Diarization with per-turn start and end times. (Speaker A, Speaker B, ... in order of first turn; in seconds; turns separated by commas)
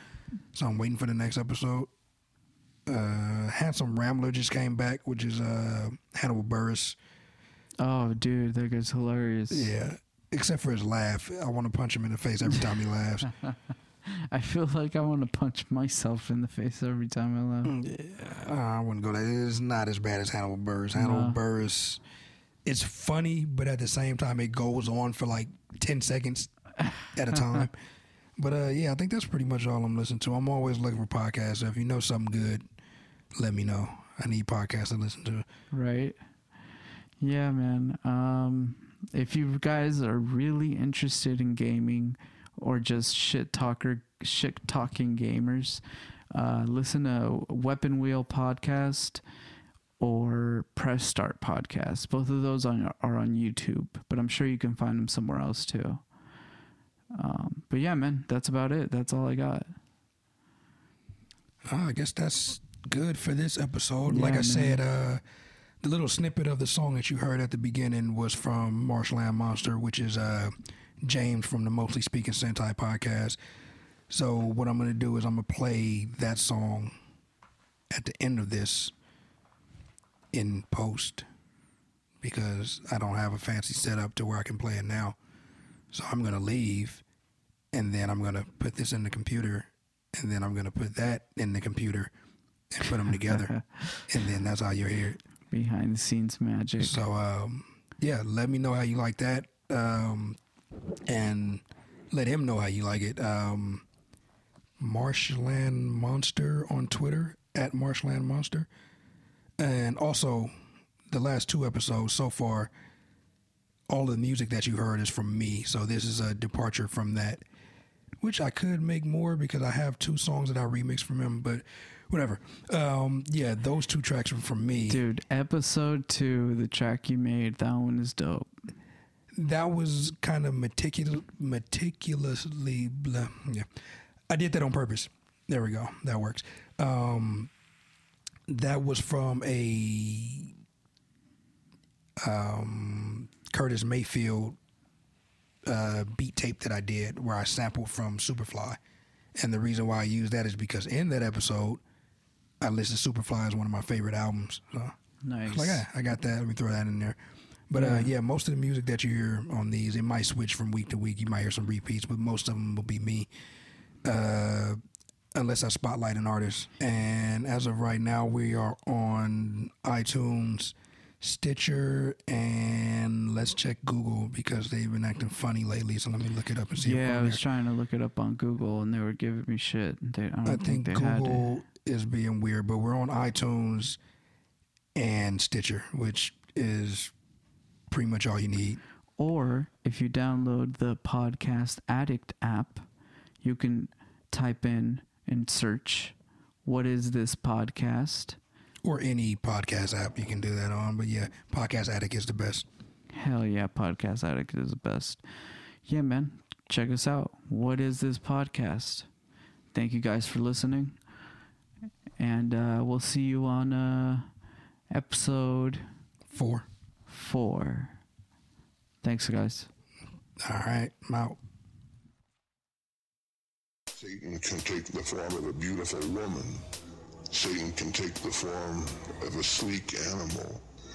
Speaker A: 0.5-1.9, Speaker A: 2.9-7.0, Speaker B: 7.8-9.7, Speaker A: 9.5-13.3, Speaker B: 14.1-17.7, Speaker A: 17.6-22.0, Speaker B: 20.9-21.4, Speaker A: 22.6-26.5, Speaker A: 27.1-27.7, Speaker A: 28.4-32.6, Speaker A: 33.4-35.5, Speaker B: 35.7-36.1, Speaker B: 37.2-45.8, Speaker B: 46.3-49.2, Speaker B: 50.0-56.0, Speaker B: 57.1-59.7, Speaker A: 61.7-65.2, Speaker B: 64.1-64.8, Speaker A: 65.8-73.4, Speaker A: 74.1-76.9, Speaker A: 77.9-78.9, Speaker A: 80.3-81.2, Speaker A: 82.2-85.2, Speaker A: 85.9-87.0, Speaker A: 87.7-92.1, Speaker A: 92.7-93.5, Speaker B: 93.2-94.0, Speaker A: 94.1-95.2, Speaker B: 95.5-97.0, Speaker A: 96.8-100.4, Speaker A: 101.0-103.8, Speaker A: 104.8-108.7, Speaker A: 109.6-110.5, Speaker A: 111.1-112.7, Speaker A: 113.9-117.4, Speaker A: 118.2-125.0, Speaker B: 124.9-128.6, Speaker A: 129.3-133.7, Speaker A: 134.3-137.5, Speaker A: 138.5-140.5, Speaker A: 142.2-144.6, Speaker A: 145.6-148.8, Speaker A: 149.3-151.8, Speaker A: 152.6-154.9, Speaker B: 155.2-155.8, Speaker A: 155.5-163.3, Speaker B: 157.7-158.1, Speaker A: 164.0-164.8, Speaker A: 165.3-177.4, Speaker B: 176.8-181.5, Speaker A: 180.4-184.0, Speaker A: 184.9-187.1, Speaker A: 187.9-188.8, Speaker B: 189.2-192.9, Speaker B: 193.4-198.4, Speaker A: 198.8-202.7, Speaker B: 203.1-205.2, Speaker B: 205.8-209.1, Speaker B: 209.7-211.0, Speaker B: 212.2-214.3, Speaker B: 214.9-215.8, Speaker A: 216.3-216.7, Speaker B: 217.1-218.0, Speaker B: 219.0-219.7, Speaker A: 220.4-221.4, Speaker C: 223.9-226.7, Speaker C: 227.3-230.6